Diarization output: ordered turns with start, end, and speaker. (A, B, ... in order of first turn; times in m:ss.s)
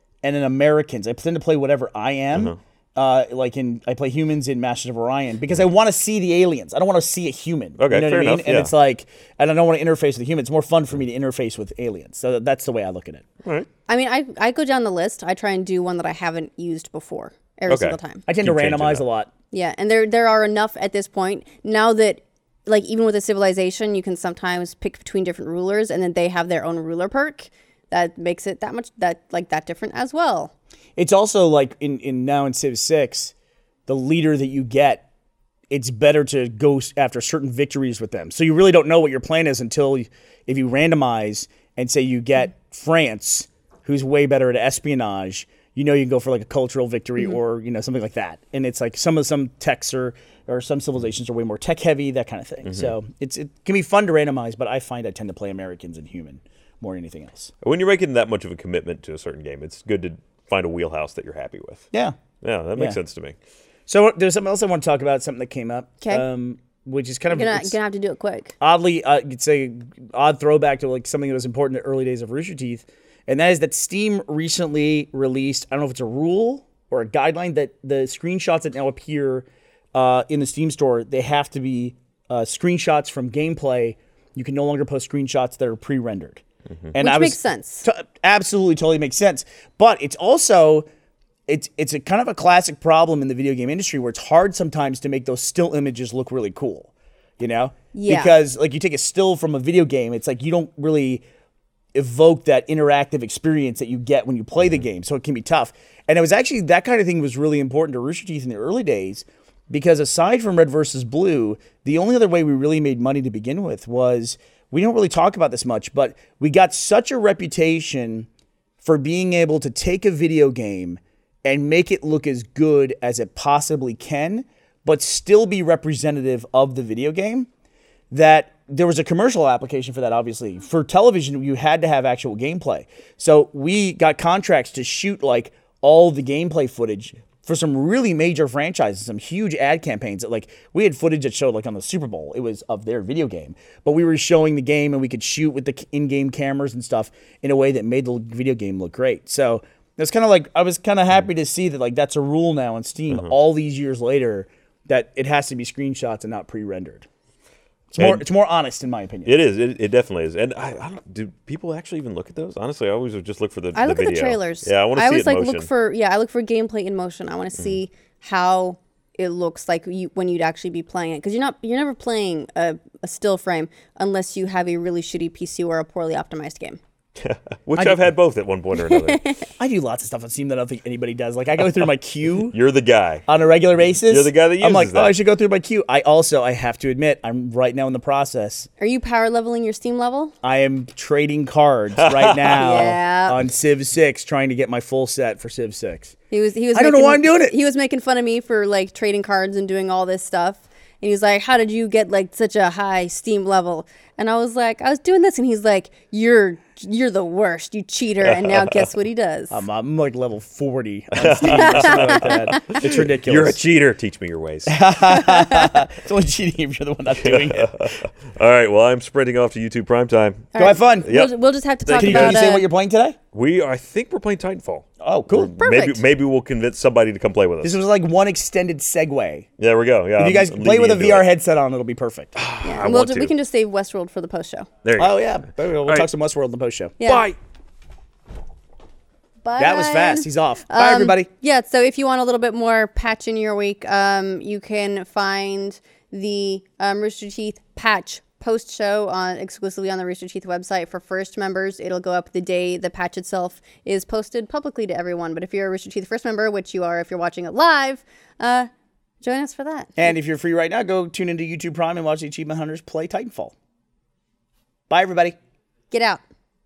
0:00.2-0:13.3 A
0:07.8-0:08.7 B
0:13.9-0:18.2 C
0:17.7-0:19.0 B
0:18.3-0:19.3 A
0:19.5-0:30.5 C
0:31.0-0:33.3 A
0:33.9-0:35.0 A
0:35.7-0:57.5 A
0:52.6-0:52.9 B
0:57.6-1:01.9 B
1:02.4-1:03.4 B
1:03.9-1:07.8 A
1:07.3-1:08.5 C
1:08.6-1:26.4 A
1:26.9-1:30.9 A
1:27.0-1:27.8 C
1:31.5-1:41.2 A
1:37.9-1:38.4 C
1:41.9-1:58.3 A
1:58.8-2:07.5 A
2:08.1-2:37.0 A
2:37.9-2:39.4 A
2:38.0-2:38.2 B
2:39.2-2:45.7 B
2:43.7-2:56.8 C
2:57.2-2:59.3 B
2:57.8-2:58.0 A
2:58.8-2:59.4 C
2:59.6-3:02.6 A
3:02.5-3:03.2 B
3:03.3-3:08.7 A
3:04.0-3:05.2 B
3:08.8-3:10.3 C
3:10.4-3:16.1 A
3:12.0-3:12.9 B
3:12.5-3:13.4 C
3:16.3-3:29.6 C
3:16.7-3:17.5 A
3:28.2-3:28.8 B
3:29.5-3:33.6 A
3:31.1-3:34.8 B
3:31.3-3:32.8 C
3:34.7-3:38.0 A
3:35.1-3:35.7 C
3:37.2-3:42.4 B
3:40.5-3:42.7 C
3:40.6-3:41.1 A
3:42.0-3:43.2 A
3:43.3-3:47.8 B
3:45.0-3:45.5 A
3:45.6-3:46.0 C
3:47.6-3:49.5 A
3:49.6-3:51.2 B
3:50.2-3:52.3 A
3:52.4-3:53.3 B
3:52.6-3:54.7 C
3:54.8-3:55.2 B
3:55.0-3:57.0 A
3:57.0-3:57.2 C
3:57.0-3:57.3 B
3:59.4-4:18.7 C
3:59.6-4:01.3 A
4:19.2-4:20.1 C
4:20.0-4:23.5 A
4:24.9-4:25.4 A
4:25.9-4:26.2 C